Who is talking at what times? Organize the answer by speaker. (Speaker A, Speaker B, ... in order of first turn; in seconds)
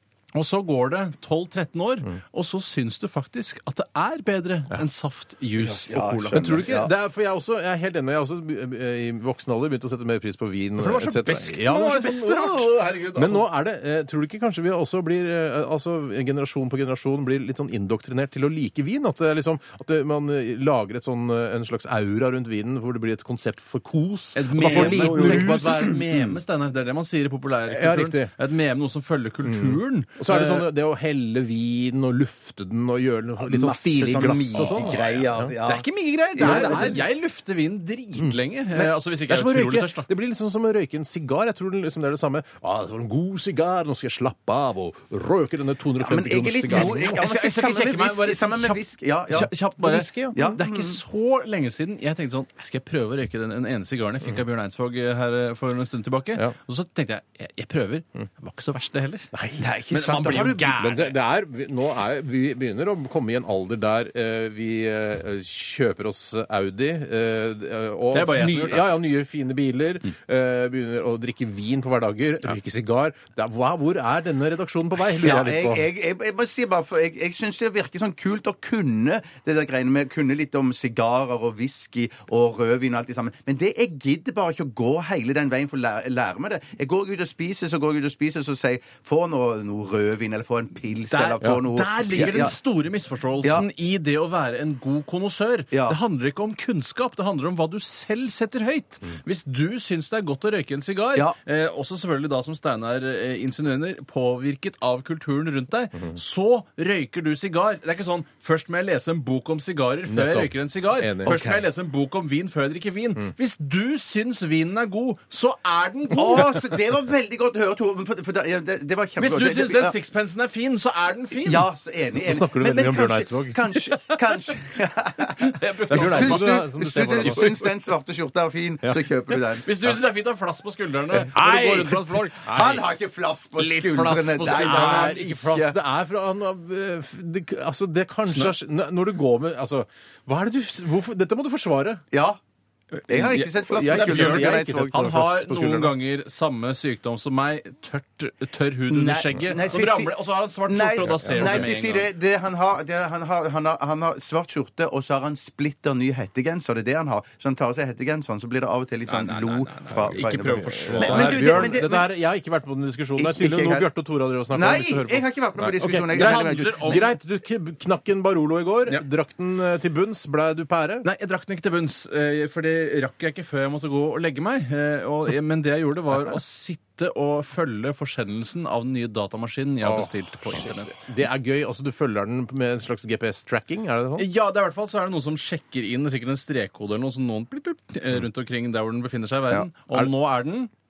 Speaker A: 0.3-6.7, 10.8-13.5, 24.4-30.7, 34.5-40.1, 46.7-59.3, 59.9-61.1, 68.1-68.9, 91.1-116.6, 119.2-121.7, 125.4-126.6, 129.6-132.8, 133.6-135.2, 138.3-138.6, 143.0-152.1, 159.1-161.9, 166.1-167.1, 171.0-180.9, 184.2-190.7
Speaker B: 5.6-6.9, 24.6-26.0, 33.4-37.0, 46.0-49.5, 50.3-51.0, 59.6-60.8, 75.2-92.5, 95.7-96.0, 111.2-111.6, 116.1-119.9, 121.4-129.9, 132.4-135.8, 142.1-142.4, 143.1-145.0, 148.9-162.1, 163.2-163.9, 164.5-167.1
Speaker C: 6.3-26.3, 27.7-28.3, 29.4-35.5, 36.4-37.0, 38.2-47.2, 49.4-50.4, 59.3-59.6, 60.3-75.8, 91.4-92.4, 110.1-111.4, 122.2-124.0, 125.9-127.7, 128.8-129.1, 131.2-132.8, 134.4-142.0, 143.2-146.0, 151.0-151.7, 160.7-171.1, 179.8-184.3